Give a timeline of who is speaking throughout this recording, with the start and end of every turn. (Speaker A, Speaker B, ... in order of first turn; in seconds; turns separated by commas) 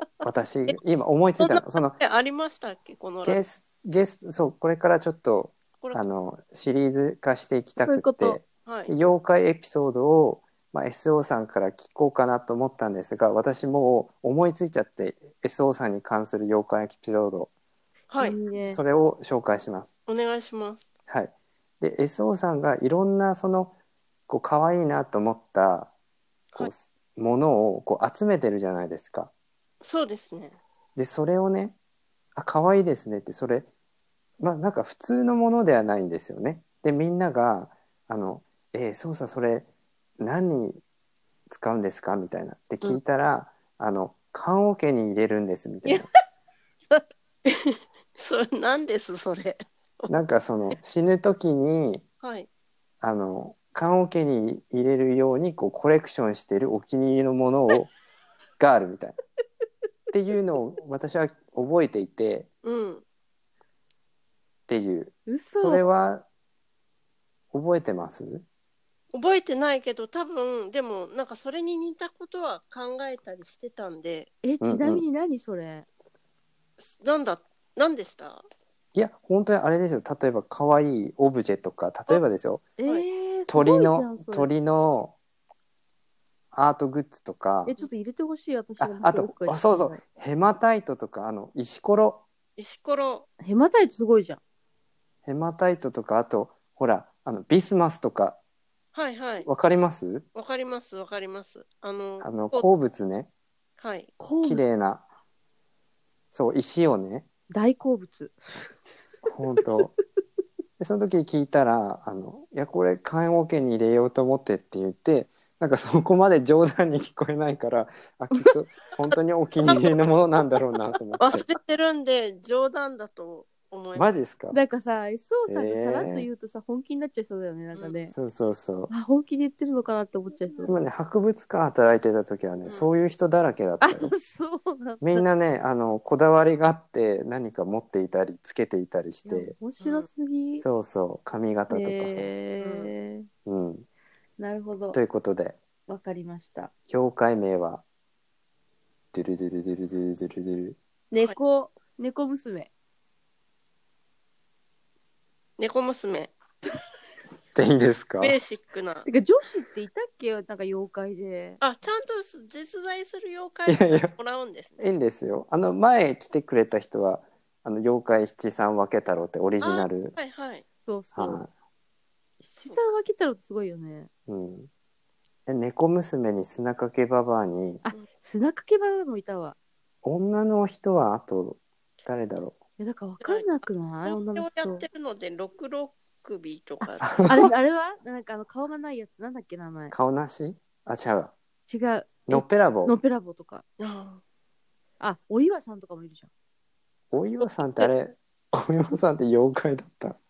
Speaker A: 0.2-2.0, Speaker B: 1.4-3.4, Speaker A: 3.2-17.5, Speaker C: 7.8-8.4, Speaker B: 8.7-8.9, Speaker B: 18.1-18.4, Speaker C: 18.2-18.8, Speaker A: 18.7-19.9, Speaker B: 20.1-20.9, Speaker A: 21.1-23.7, Speaker A: 24.3-25.9, Speaker A: 26.6-29.3, Speaker B: 29.8-30.6, Speaker A: 30.9-31.8, Speaker A: 32.4-33.7, Speaker A: 34.4-39.7, Speaker A: 40.2-40.8, Speaker A: 41.5-46.1, Speaker B: 47.5-50.1, Speaker A: 50.1-52.0, Speaker B: 52.2-52.5, Speaker A: 53.0-57.9, Speaker A: 58.6-59.2, Speaker A: 60.1-62.5, Speaker B: 62.6-63.0, Speaker A: 64.7-66.3, Speaker C: 65.3-65.8, Speaker A: 67.5-68.5, Speaker B: 69.1-74.3, Speaker C: 74.4-75.9, Speaker A: 74.6-75.0, Speaker B: 76.8-78.5, Speaker A: 79.0-82.6, Speaker C: 82.8-84.5, Speaker A: 83.5-85.2, Speaker A: 86.5-87.7, Speaker C: 87.6-90.0, Speaker A: 88.8-92.2, Speaker B: 92.6-93.3, Speaker C: 93.4-94.4, Speaker A: 95.2-98.4, Speaker B: 98.9-99.5, Speaker A: 99.4-100.2, Speaker B: 100.3-102.7, Speaker A: 102.2-103.3, Speaker B: 103.8-104.1, Speaker C: 104.2-104.7, Speaker A: 104.4-105.0, Speaker A: 106.3-107.3, Speaker C: 107.5-108.7, Speaker A: 109.2-109.9, Speaker C: 109.6-109.9, Speaker A: 110.8-121.5, Speaker C: 118.3-118.6, Speaker B: 119.7-120.0, Speaker B: 121.2-124.1, Speaker A: 124.0-124.6, Speaker C: 124.5-128.1, Speaker A: 125.5-126.3, Speaker B: 127.7-128.0, Speaker A: 128.1-128.9, Speaker C: 128.9-130.8, Speaker A: 130.7-134.2, Speaker B: 132.7-132.9, Speaker C: 133.8-135.3, Speaker A: 135.0-139.6, Speaker C: 139.2-140.6, Speaker B: 139.8-140.1, Speaker A: 140.6-142.3, Speaker C: 141.7-143.3, Speaker B: 142.6-142.9, Speaker A: 143.4-143.9, Speaker C: 144.4-145.0, Speaker A: 144.9-145.6, Speaker C: 145.9-146.7, Speaker A: 146.9-147.8, Speaker A: 149.1-150.8, Speaker C: 151.1-152.7, Speaker B: 155.6-156.3, Speaker A: 157.6-158.4, Speaker B: 158.2-159.1, Speaker C: 159.1-161.6, Speaker B: 161.6-164.9, Speaker A: 163.7-164.1, Speaker A: 164.8-170.2, Speaker B: 169.6-170.7, Speaker C: 170.9-171.4, Speaker A: 171.1-171.5, Speaker C: 172.4-174.1, Speaker B: 172.6-172.9, Speaker A: 174.3-174.7, Speaker A: 175.4-177.8, Speaker C: 177.9-179.6, Speaker A: 180.0-182.6, Speaker C: 182.8-184.8, Speaker B: 183.2-183.5, Speaker B: 184.1-187.3, Speaker C: 186.8-189.9, Speaker A: 187.0-187.5, Speaker A: 189.9-191.3, Speaker C: 191.7-193.6, Speaker A: 192.3-192.9, Speaker B: 193.8-194.2, Speaker C: 195.0-196.3, Speaker A: 197.1-200.2